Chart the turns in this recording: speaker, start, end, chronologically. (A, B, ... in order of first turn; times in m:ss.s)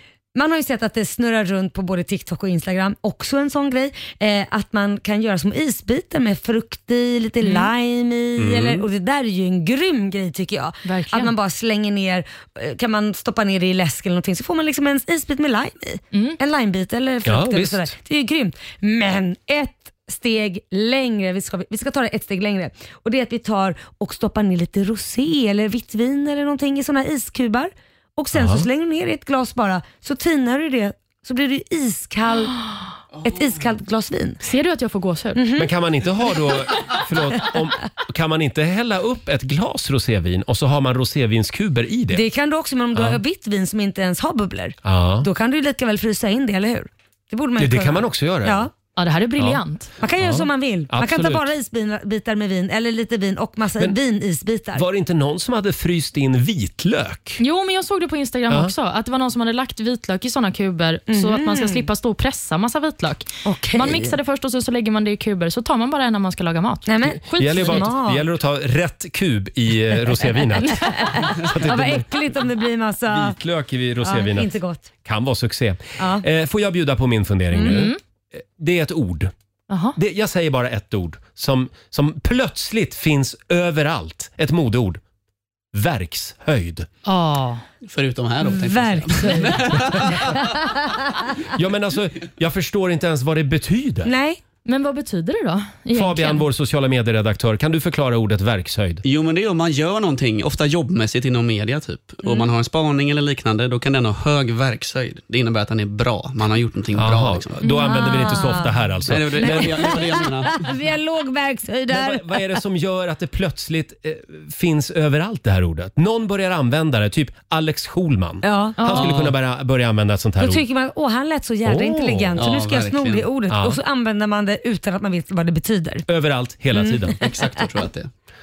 0:00.4-0:32.6 A
0:07.4-0:07.7 B
0:08.4-0:08.8 C
0:10.8-0:11.3 B
0:16.1-0:16.4 B
0:17.3-0:17.9 C
0:28.3-0:28.6 C
0:33.2-0:34.4 A
0:34.4-0:35.4 B
0:35.4-0:35.7 A
0:35.6-0:42.2 C
0:42.1-0:48.7 A
0:44.8-0:45.3 C
0:47.6-0:48.7 C
0:49.0-0:49.9 B
0:50.0-0:54.8 A
0:50.2-0:51.4 C
0:54.8-0:57.4 C
0:57.4-1:07.9 B
1:01.1-1:01.9 A
1:03.4-1:04.2 A
1:06.9-1:08.2 A
1:07.4-1:12.1 C
1:10.7-1:13.4 A
1:10.7-1:11.2 B
1:13.1-1:14.5 C
1:14.0-1:14.8 A
1:15.0-1:17.9 C
1:16.0-1:16.2 A
1:17.5-1:17.9 A
1:17.6-1:18.0 B
1:18.6-1:19.3 C
1:19.7-1:20.0 B
1:20.0-1:25.0 C
1:25.7-1:26.9 C
1:27.0-1:27.6 B
1:27.8-1:30.3 D
1:28.4-1:29.6 A
1:31.5-1:34.1 C
1:34.1-1:34.4 A
1:34.7-1:36.4 B
1:35.9-1:39.0 C
1:39.0-1:47.6 D
1:47.0-1:50.3 C
1:47.6-1:48.8 A
1:49.1-1:50.7 D
1:49.4-1:52.6 A
1:51.9-2:00.6 C
1:58.4-1:58.8 A
1:58.8-1:59.1 B
1:58.9-1:59.3 D
2:00.4-2:06.0 A
2:01.7-2:02.4 C
2:02.4-2:03.3 D
2:03.5-2:03.8 C
2:06.1-2:07.2 C
2:06.7-2:07.6 A
2:07.2-2:08.1 D